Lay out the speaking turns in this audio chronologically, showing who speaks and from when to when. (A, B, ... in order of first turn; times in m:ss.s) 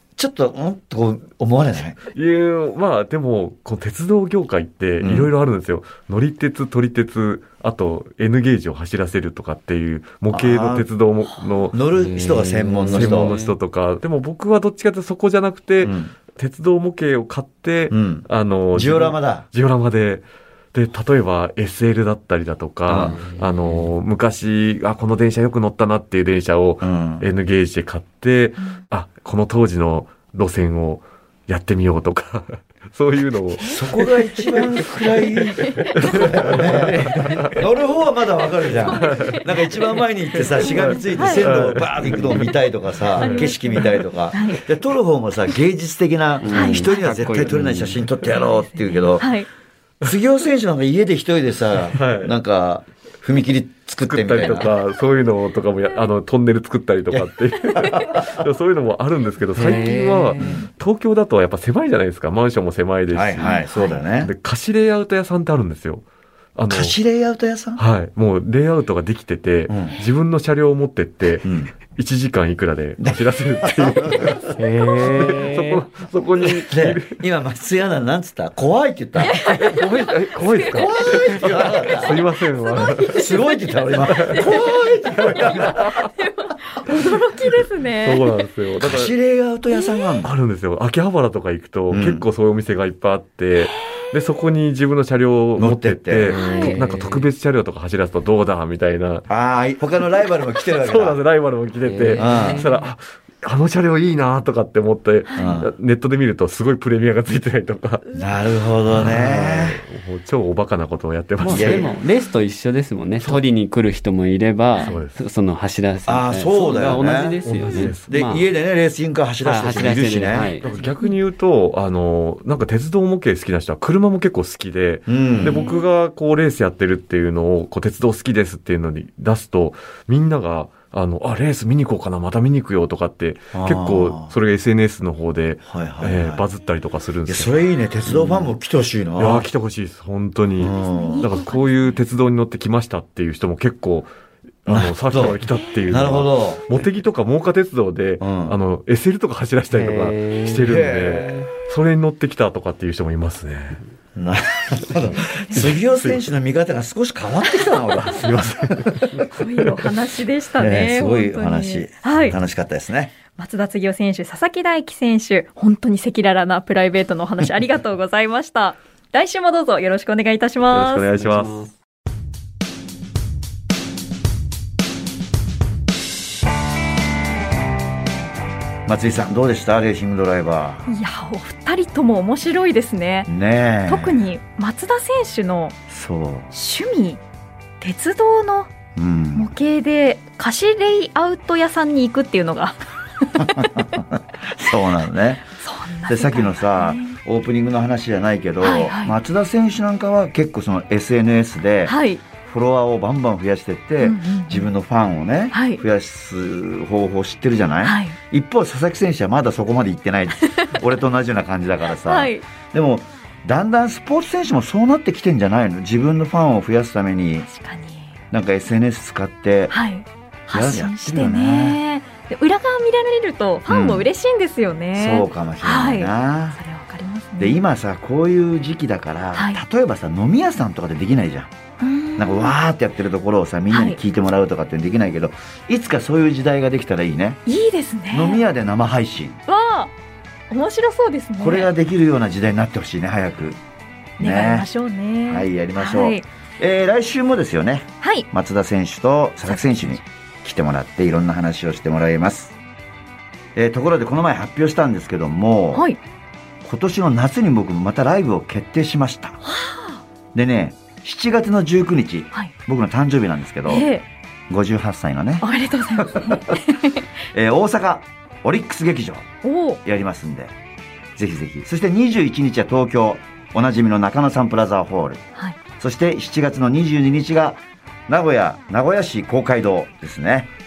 0:00.2-0:02.0 A
0:02.1-0:11.8 B
0:05.0-0:05.3 A
0:10.3-0:10.9 A
0:11.7-0:13.3 A
0:11.9-0:13.5 C
0:12.9-0:37.6 B
0:15.8-0:16.1 A
0:17.9-0:19.5 A
0:22.9-0:23.2 A
0:22.9-0:23.9 C
0:26.8-0:27.2 A
0:33.6-0:33.8 D
0:33.6-0:49.4 A
0:35.6-0:36.3 D
0:38.9-0:39.4 D
0:39.0-0:39.4 B
0:40.4-0:42.5 B
0:40.6-0:41.5 D
0:43.1-0:44.0 B
0:43.2-0:44.6 D
0:46.4-0:48.1 C
0:46.5-0:47.0 D
0:48.2-0:49.5 D
0:50.0-0:54.7 A
0:51.9-0:52.4 B
0:54.0-1:03.6 B
0:57.1-0:58.4 A
0:59.5-1:00.6 C
1:00.4-1:00.7 A
1:03.1-1:04.3 A
1:03.4-1:04.0 D
1:04.2-1:07.0 B
1:06.7-1:07.8 A
1:07.8-1:17.2 B
1:09.7-1:10.0 A
1:11.4-1:11.7 A
1:13.0-1:14.4 A
1:14.6-1:15.8 C
1:16.4-1:19.6 A
1:19.2-1:21.2 D
1:19.4-1:23.3 B
1:20.6-1:26.0 A
1:22.6-1:23.5 D
1:24.0-1:26.1 B
1:24.0-1:28.3 D
1:28.0-1:29.1 B
1:28.8-1:30.3 A
1:29.7-1:30.1 D
1:30.2-1:39.3 B
1:31.9-1:32.2 A
1:35.6-1:36.4 A
1:36.3-1:36.8 D
1:36.3-1:37.3 C
1:39.3-1:41.2 A
1:40.6-1:48.1 B
1:41.8-1:42.7 C
1:42.2-1:42.7 A
1:45.3-1:45.6 D
1:45.4-1:45.7 A
1:48.1-1:49.8 A
1:48.9-1:51.9 B
1:51.4-1:58.4 C
1:51.5-1:51.9 A
1:54.8-1:55.2 B
1:56.0-1:57.4 A
1:57.4-1:58.1 B
1:58.1-2:00.5 A
1:59.4-2:00.6 C
2:00.6-2:17.6 B
2:00.8-2:01.1 D
2:05.1-2:05.6 A
2:05.4-2:05.9 D
2:13.5-2:14.3 A
2:15.6-2:16.4 A
2:17.3-2:19.5 A
2:19.2-2:24.1 B
2:20.6-2:21.2 A
2:20.7-2:22.0 D
2:24.6-2:33.8 B
2:24.7-2:26.7 A
2:28.2-2:28.6 A
2:29.7-2:30.7 C
2:30.6-2:31.5 A
2:34.2-2:39.2 A
2:35.4-2:35.6 D
2:35.5-2:36.2 B
2:38.0-2:39.2 B
2:39.2-2:42.4 D
2:40.6-2:43.1 A
2:43.3-2:51.1 D
2:50.7-2:51.7 B
2:50.7-2:51.7 C
2:58.8-3:00.9 A
3:00.9-3:03.3 D
3:03.3-3:04.2 A
3:03.9-3:05.8 D
3:05.9-3:06.5 A
3:06.5-3:07.2 D
3:07.8-3:08.7 D
3:08.9-3:09.5 A
3:09.4-3:13.7 D
3:13.4-3:15.5 A
3:15.6-3:17.2 D
3:16.0-3:37.5 A
3:18.6-3:19.1 D
3:21.8-3:22.2 D
3:24.0-3:24.7 D
3:25.5-3:25.8 D
3:27.8-3:28.2 D
3:30.4-3:30.8 D
3:32.0-3:32.4 D
3:37.4-3:38.2 D
3:38.3-3:39.8 A
3:39.7-3:47.6 D
3:40.5-3:41.8 A
3:43.7-3:44.1 A
3:44.9-3:46.6 A
3:47.4-3:51.5 A
3:49.3-3:49.6 D
3:51.8-3:52.5 D
3:52.2-3:57.4 A
3:53.7-3:54.0 D
3:57.5-3:58.4 D
3:58.1-3:59.4 A
3:59.5-3:59.9 D
4:00.5-4:01.7 D
4:01.4-4:03.6 A
4:04.2-4:04.7 A
4:04.2-4:06.2 D
4:05.2-4:12.5 A
4:09.4-4:10.0 D
4:13.5-4:15.9 A
4:15.7-4:16.0 D
4:16.6-4:19.4 A
4:19.4-4:20.0 D
4:20.3-4:23.9 A
4:23.7-4:24.0 D
4:24.5-4:26.6 A
4:25.4-4:27.0 D
4:27.3-4:29.3 A
4:29.4-4:29.8 D
4:29.8-4:30.5 A
4:31.2-4:35.2 A
4:35.8-4:40.5 A